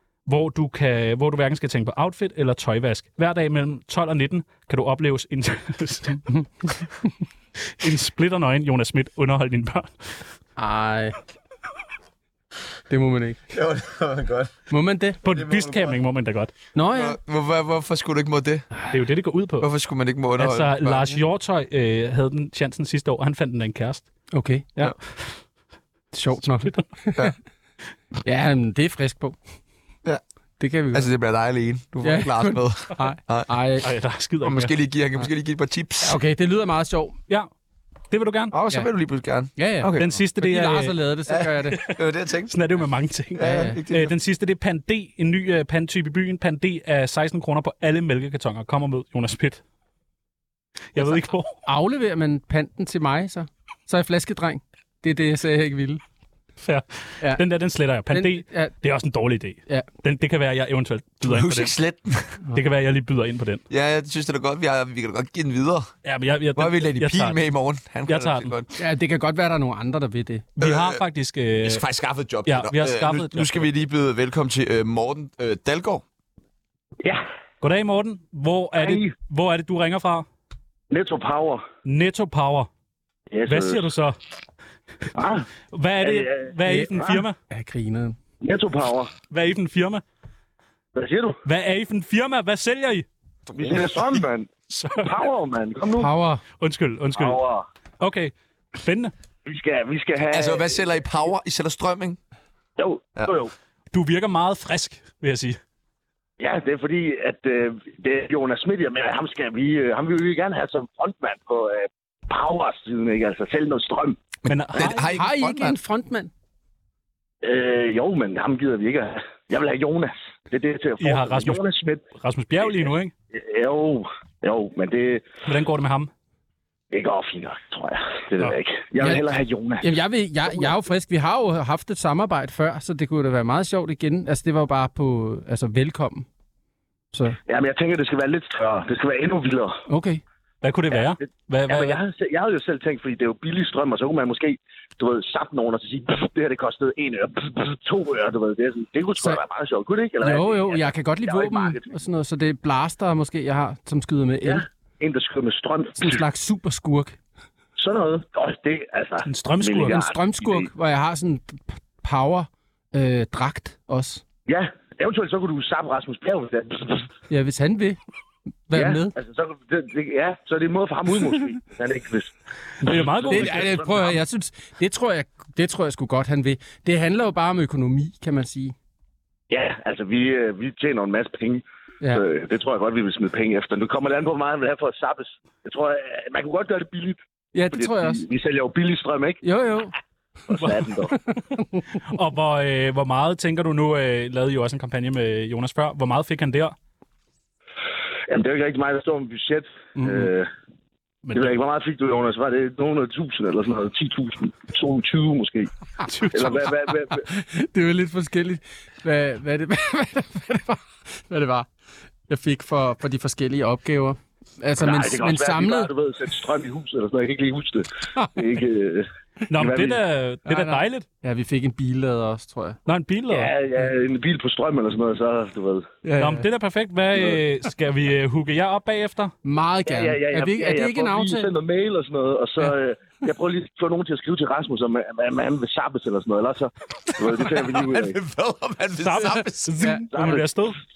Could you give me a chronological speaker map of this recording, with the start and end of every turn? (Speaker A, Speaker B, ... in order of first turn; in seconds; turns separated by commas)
Speaker A: 0.3-6.4, Speaker A: 7.7-9.9, Speaker B: 10.6-11.2, Speaker B: 12.9-13.4, Speaker C: 13.5-14.6, Speaker B: 14.7-15.2, Speaker A: 15.2-16.5, Speaker C: 15.3-16.0, Speaker B: 16.7-17.2, Speaker C: 16.9-18.7, Speaker A: 18.9-19.7, Speaker C: 19.6-21.1, Speaker A: 20.4-24.1, Speaker B: 24.3-24.7, Speaker A: 24.8-25.3, Speaker B: 26.1-27.3, Speaker A: 26.4-26.9, Speaker B: 28.2-29.4, Speaker B: 30.6-31.1, Speaker C: 30.9-33.5, Speaker B: 32.0-33.9, Speaker A: 33.8-34.8, Speaker C: 34.4-36.2, Speaker B: 36.0-37.1, Speaker A: 38.1-38.5, Speaker C: 38.5-40.0, Speaker B: 39.5-41.8, Speaker A: 39.9-41.0, Speaker C: 41.3-42.5, Speaker A: 41.7-49.6, Speaker C: 43.3-44.1, Speaker B: 43.4-43.8, Speaker A: 50.9-51.6, Speaker B: 51.6-56.0, Speaker A: 56.6-61.7, Speaker B: 58.1-58.7, Speaker C: 61.2-62.4, Speaker A: 62.5-63.6, Speaker C: 63.7-65.9, Speaker A: 66.0-67.4, Speaker C: 66.5-68.8, Speaker A: 68.1-68.5, Speaker B: 68.8-70.5, Speaker A: 70.6-71.8, Speaker C: 70.6-71.0, Speaker C: 71.6-76.0, Speaker A: 72.5-73.7, Speaker A: 77.6-80.3, Speaker D: 78.7-79.1, Speaker D: 80.9-81.6, Speaker A: 81.8-82.7, Speaker D: 83.3-83.9, Speaker A: 83.5-84.2, Speaker D: 85.1-85.5, Speaker A: 85.7-87.4, Speaker D: 86.0-87.2, Speaker B: 86.6-88.2, Speaker D: 88.4-89.1, Speaker A: 89.3-90.0, Speaker D: 91.0-91.4, Speaker A: 91.5-93.0, Speaker C: 93.5-94.3, Speaker D: 93.5-96.1, Speaker A: 94.7-95.2, Speaker B: 96.0-96.4, Speaker A: 96.6-97.4, Speaker D: 97.1-97.7, Speaker A: 98.0-99.1, Speaker D: 99.5-100.8, Speaker C: 100.3-102.2, Speaker D: 102.8-103.5, Speaker A: 103.9-105.6, Speaker D: 106.4-114.2, Speaker C: 114.4-115.8, Speaker A: 114.5-115.2, Speaker B: 115.0-116.3, Speaker D: 117.4-122.0, Speaker A: 121.0-123.1, Speaker D: 122.6-125.3, Speaker A: 125.5-126.1, Speaker D: 126.9-129.9, Speaker B: 129.8-136.3, Speaker B: 137.1-137.4, Speaker D: 137.5-139.8, Speaker B: 139.9-140.2, Speaker A: 140.6-142.0, Speaker D: 140.9-141.2, Speaker D: 141.7-152.0, Speaker B: 150.2-154.6, Speaker D: 154.4-156.2, Speaker B: 156.0-157.2, Speaker D: 157.8-160.7, Speaker A: 159.2-160.1, Speaker B: 159.9-164.2, Speaker D: 164.5-167.1, Speaker B: 167.3-168.0, Speaker B: 168.7-169.1, Speaker D: 168.7-174.1, Speaker A: 172.8-174.1, Speaker B: 173.3-178.7, Speaker D: 179.5-189.4, Speaker B: 187.5-188.2, Speaker B: 189.4-189.9, Speaker D: 190.5-191.2, Speaker B: 191.3-191.9, Speaker A: 192.0-196.7, Speaker D: 198.3-200.5, Speaker B: 199.9-200.3, Speaker D: 201.3-205.7, Speaker A: 206.1-206.7, Speaker D: 206.3-207.2, Speaker B: 207.2-211.7, Speaker B: 212.3-215.9, Speaker D: 214.8-220.0, Speaker A: 219.5-221.1, Speaker B: 220.4-222.8, Speaker A: 222.9-223.5, Speaker D: 223.3-225.9, Speaker B: 226.0-226.4, Speaker A: 226.2-229.3, Speaker B: 229.4-231.5, Speaker D: 229.9-238.2, Speaker C: 237.1-239.7, Speaker A: 239.0-240.8, Speaker B: 239.8-240.4, Speaker D: 240.1-240.7